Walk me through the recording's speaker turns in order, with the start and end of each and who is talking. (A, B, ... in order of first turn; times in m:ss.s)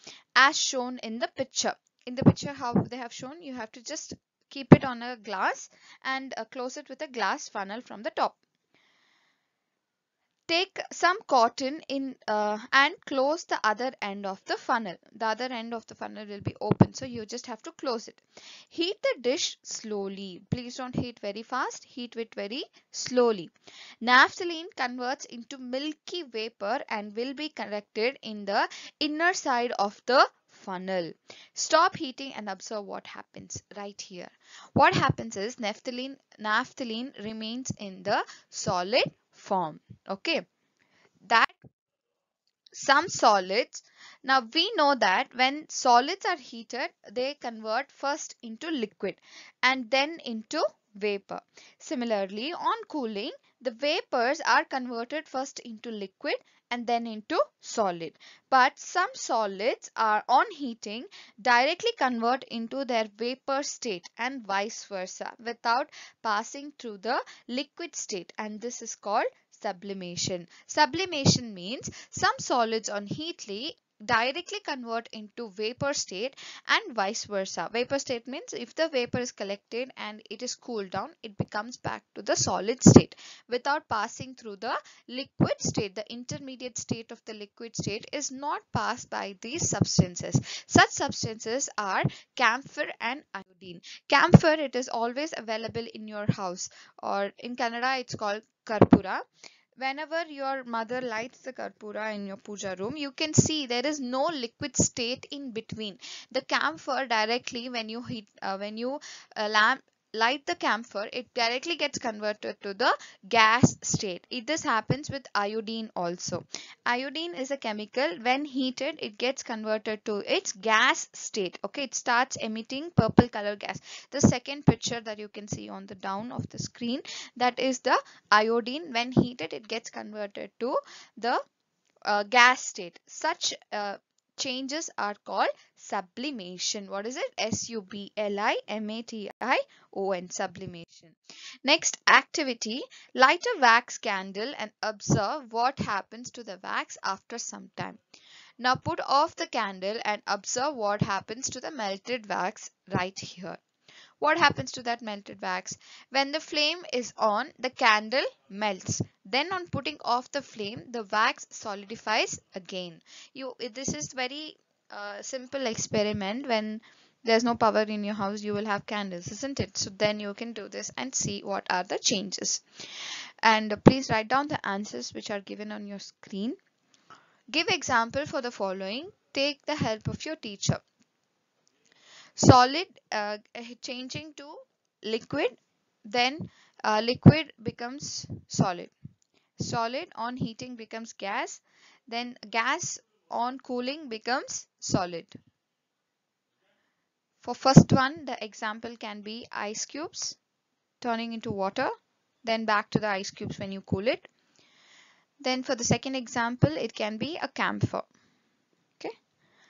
0:00.4-0:08.4 A
0:10.5-0:23.5 A
0:24.0-0:40.4 A
0:41.2-0:41.6 A
0:42.7-1:39.2 A
1:39.8-2:11.4 A
2:12.0-2:28.0 A
2:28.6-2:33.6 A
2:34.2-2:52.6 A
2:53.4-2:56.6 A
2:57.5-3:00.8 A
3:02.4-3:08.9 A
3:09.6-3:15.4 A
3:17.4-3:20.4 A
3:21.0-3:21.9 A
3:22.4-3:24.3 A
3:25.4-3:28.1 A